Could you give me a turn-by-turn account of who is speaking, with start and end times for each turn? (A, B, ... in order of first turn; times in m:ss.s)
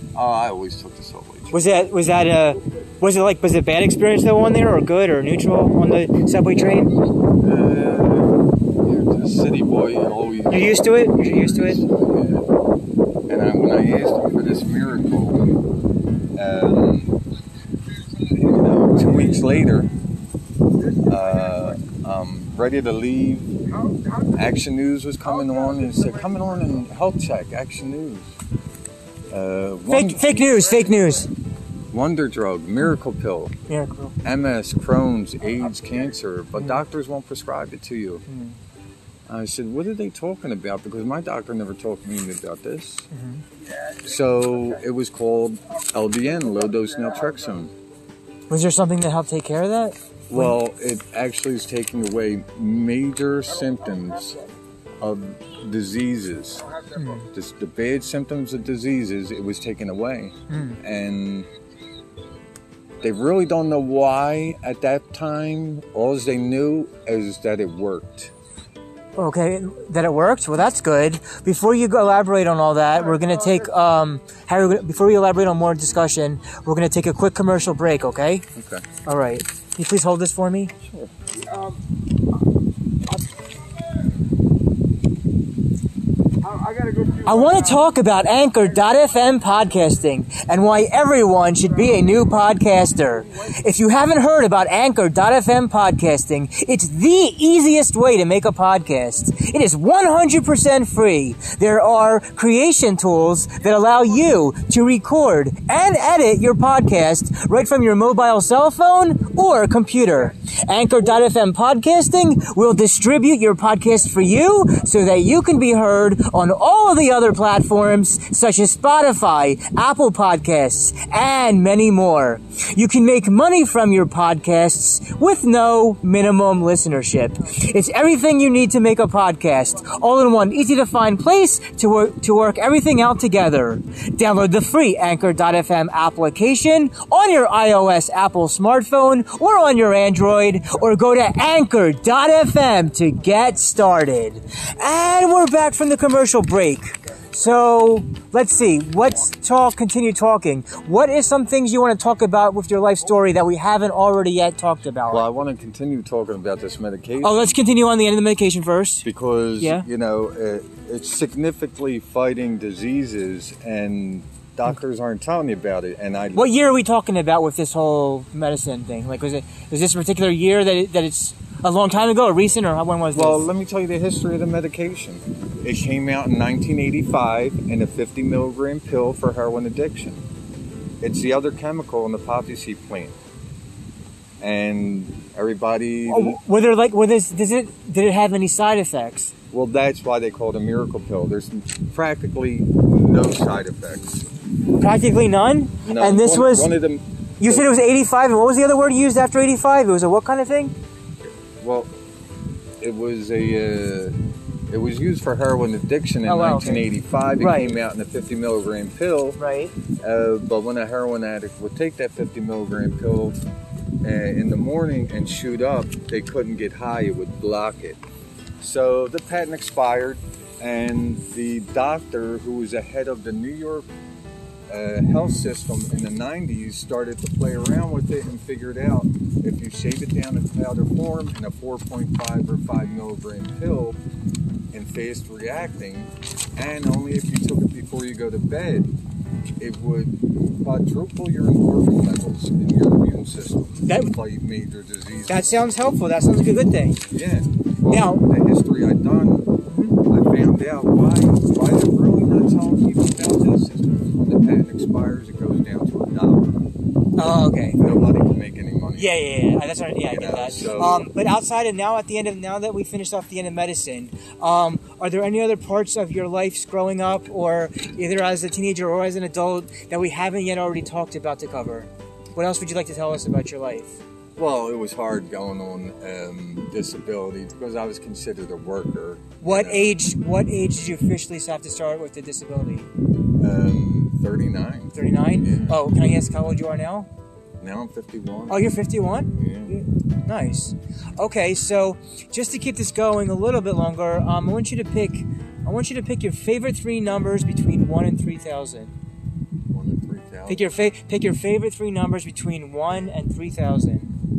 0:00.1-0:01.6 A
0:01.5-0:06.9 B
0:07.4-0:12.4 A
0:10.5-0:11.8 B
0:13.3-0:15.4 A
0:16.3-0:17.2 A
0:18.3-0:19.9 A
0:20.8-0:21.8 C
0:21.0-0:23.6 A
0:23.7-0:24.5 C
0:24.3-0:28.3 A
0:25.2-0:26.7 C
0:29.3-0:30.6 A
0:29.9-0:31.3 B
0:31.9-0:33.5 A
0:33.7-0:34.2 B
0:34.2-0:38.2 A
0:38.3-0:38.6 B
0:39.3-0:43.1 A
0:43.1-0:43.4 B
0:43.7-0:44.0 C
0:44.0-0:47.7 A
0:46.6-0:47.4 C
0:48.5-0:50.5 B
0:50.3-0:54.4 A
0:53.7-0:54.5 C
0:55.0-0:56.6 A
0:56.6-0:57.1 C
0:57.0-0:57.3 B
0:57.3-1:01.5 A
1:00.5-1:00.8 B
1:03.0-1:08.3 A
1:09.2-1:18.4 B
1:13.1-1:13.6 C
1:18.5-1:18.8 A
1:19.0-1:20.7 B
1:20.8-1:21.1 A
1:21.3-1:21.8 C
1:26.4-1:27.9 C
1:27.2-2:35.3 B
2:35.1-2:37.5 A
2:37.2-2:39.0 B
2:39.0-2:46.5 A
2:39.6-2:39.8 B
2:46.3-2:53.5 B
2:53.1-3:00.2 A
3:01.0-3:03.2 A
3:04.4-3:06.4 A
3:06.1-3:09.3 B
3:09.5-3:14.3 A
3:14.8-3:16.7 B
3:15.8-3:17.7 A
3:17.4-3:20.7 B
3:21.6-3:21.9 A
3:22.8-3:24.2 A
3:24.7-3:29.4 A
3:26.2-3:26.9 B
3:27.4-3:27.8 B
3:29.4-3:29.7 B
3:30.0-3:33.4 A
3:34.0-3:38.0 A
3:38.6-3:43.9 A
3:44.7-3:54.0 A
3:54.7-3:58.9 A
3:59.6-4:05.6 A
4:03.9-4:04.1 B
4:05.3-4:07.0 B
4:07.1-4:09.5 A
4:07.9-4:08.2 B
4:09.7-4:10.0 B
4:10.0-4:16.6 A
4:17.2-4:17.8 B
4:17.8-4:19.2 A
4:19.0-4:34.0 B
4:20.1-4:21.1 A
4:34.4-4:39.9 A
4:39.4-4:42.9 B
4:43.4-4:45.8 A
4:44.9-4:47.1 B
4:47.6-4:48.7 A
4:48.5-4:58.9 B
4:49.4-4:49.7 A
4:59.7-5:00.7 A
5:00.5-5:04.1 B